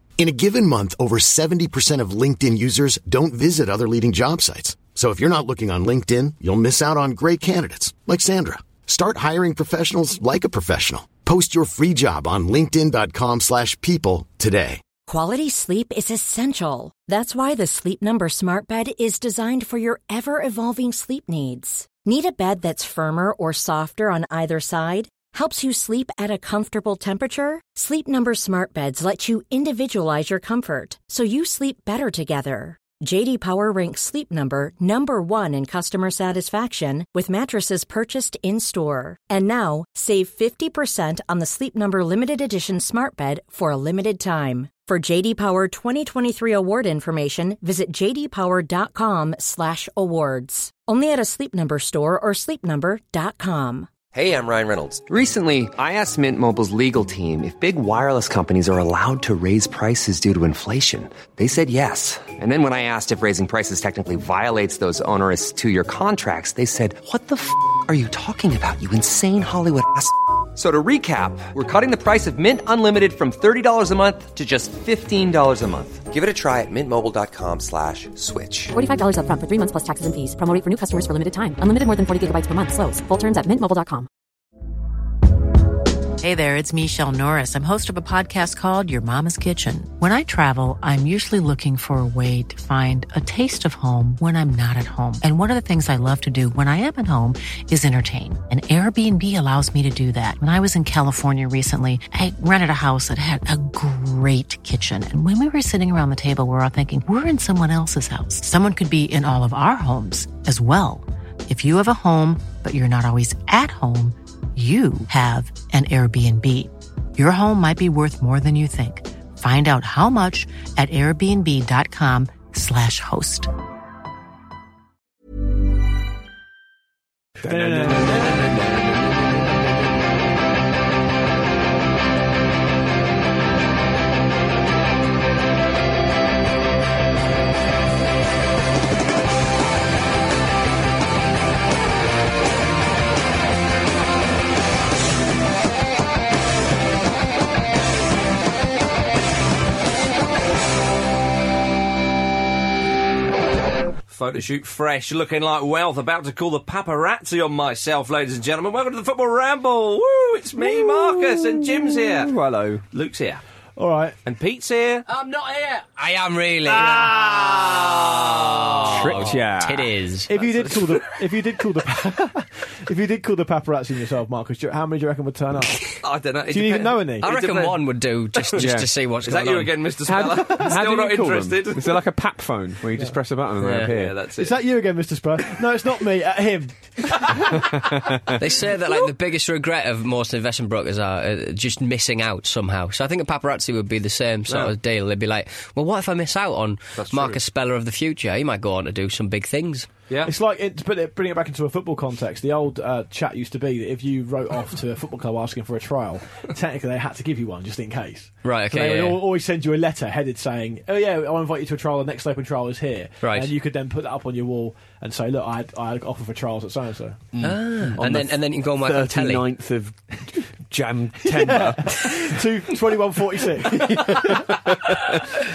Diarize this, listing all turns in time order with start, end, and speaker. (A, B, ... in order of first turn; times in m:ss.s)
0:00.2-0:14.8 A
0:15.1-0:53.9 B
0:54.1-1:18.8 C
1:18.7-1:24.1 D
1:26.2-2:03.5 E
2:07.4-2:08.7 F
2:07.4-2:08.6 G
2:34.1-2:42.4 H
2:40.6-2:42.8 F
2:42.9-2:43.4 H
2:43.8-2:44.2 G
2:44.3-2:45.0 H
2:45.1-2:50.3 I
2:46.7-2:49.3 H
2:48.9-2:50.0 F
2:50.3-2:56.0 G
2:50.4-2:51.1 H
2:56.0-2:58.6 H
2:56.5-2:57.3 G
2:57.2-2:59.8 I
2:58.6-2:58.9 F
2:59.2-3:02.0 H
3:00.0-3:04.2 F
3:03.6-3:03.9 I
3:03.8-3:04.6 H
3:04.4-3:07.5 G
3:07.5-3:08.3 F
3:08.4-3:19.9 I
3:17.0-3:17.4 H
3:20.2-3:37.2 G
3:28.4-3:29.2 I
3:33.2-3:33.5 I
3:37.3-3:42.4 F
3:37.4-3:39.5 I
3:41.3-3:44.9 G
3:43.7-3:45.2 F